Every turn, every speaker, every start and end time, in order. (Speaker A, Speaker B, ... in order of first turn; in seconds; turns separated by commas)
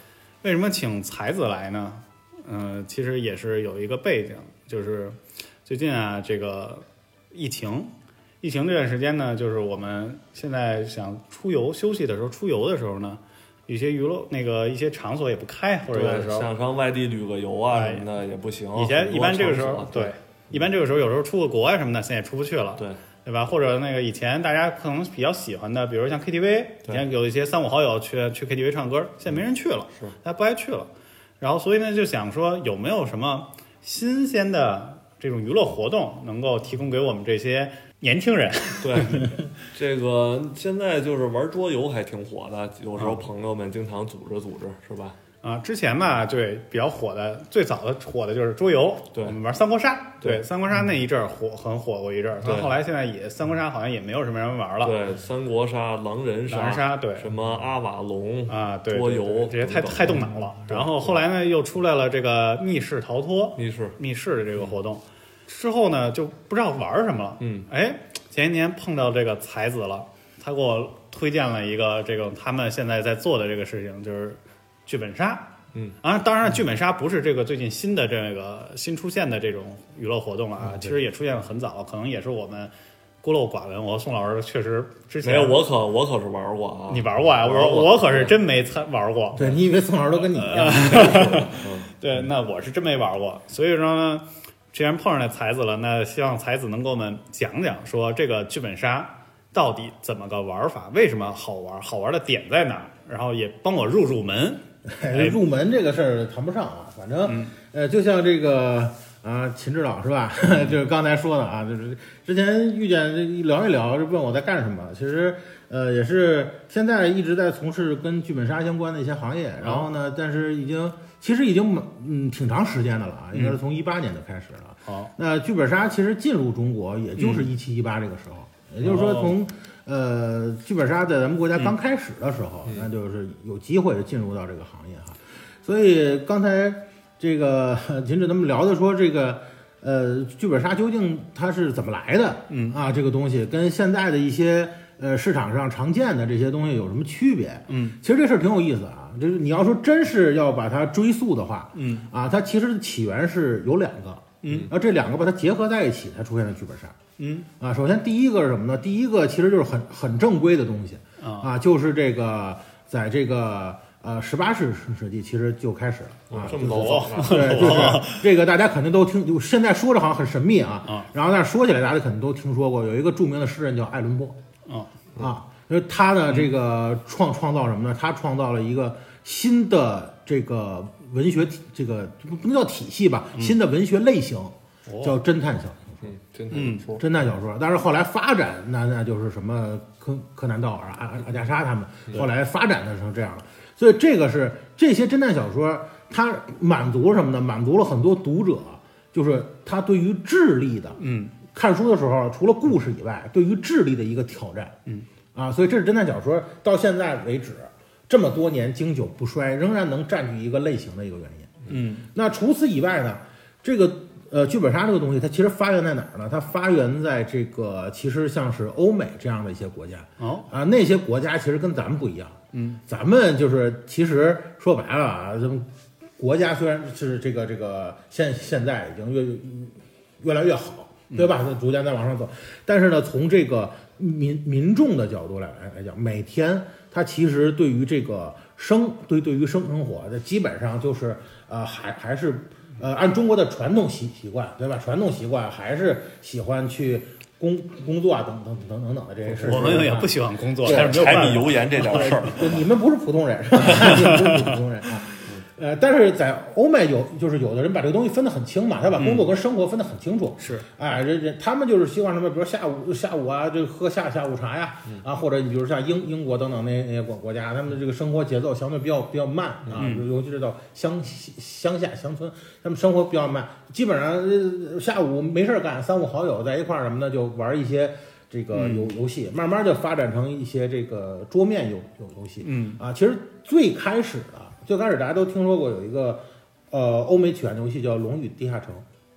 Speaker A: 0.4-16.5, Speaker B: 15.9-20.6, Speaker A: 17.7-18.1, Speaker A: 18.8-39.4, Speaker B: 38.8-45.2, Speaker A: 45.4-55.0, Speaker B: 52.4-52.8, Speaker B: 54.8-61.2, Speaker A: 56.5-57.3, Speaker A: 58.5-75.5, Speaker B: 63.6-64.0, Speaker B: 67.4-67.7, Speaker A: 76.0-85.6, Speaker C: 80.6-81.0, Speaker B: 85.2-88.3, Speaker A: 86.9-89.5, Speaker C: 89.3-91.4, Speaker A: 90.3-105.4, Speaker B: 90.8-91.9, Speaker C: 104.9-157.0, Speaker A: 107.3-107.5, Speaker A: 127.2-127.5, Speaker A: 128.8-129.4, Speaker A: 142.5-142.8, Speaker A: 147.7-148.0, Speaker A: 151.8-152.1, Speaker A: 154.4-154.7, Speaker A: 157.2-157.5, Speaker C: 157.6-174.4, Speaker A: 161.2-161.5, Speaker B: 166.3-167.9, Speaker A: 166.6-168.2, Speaker A: 174.7-174.9, Speaker C: 175.2-186.1, Speaker A: 184.9-185.2, Speaker B: 186.0-187.1, Speaker A: 186.5-186.9, Speaker C: 187.0-201.0, Speaker A: 201.0-201.3, Speaker C: 201.5-204.8, Speaker C: 205.3-288.9, Speaker A: 211.7-212.1, Speaker A: 220.2-220.5, Speaker A: 222.5-222.8, Speaker A: 249.3-252.2, Speaker B: 250.7-252.7, Speaker A: 253.6-254.6, Speaker A: 259.0-259.3, Speaker A: 260.4-260.7, Speaker A: 269.7-270.1, Speaker A: 278.5-278.9, Speaker A: 282.4-282.8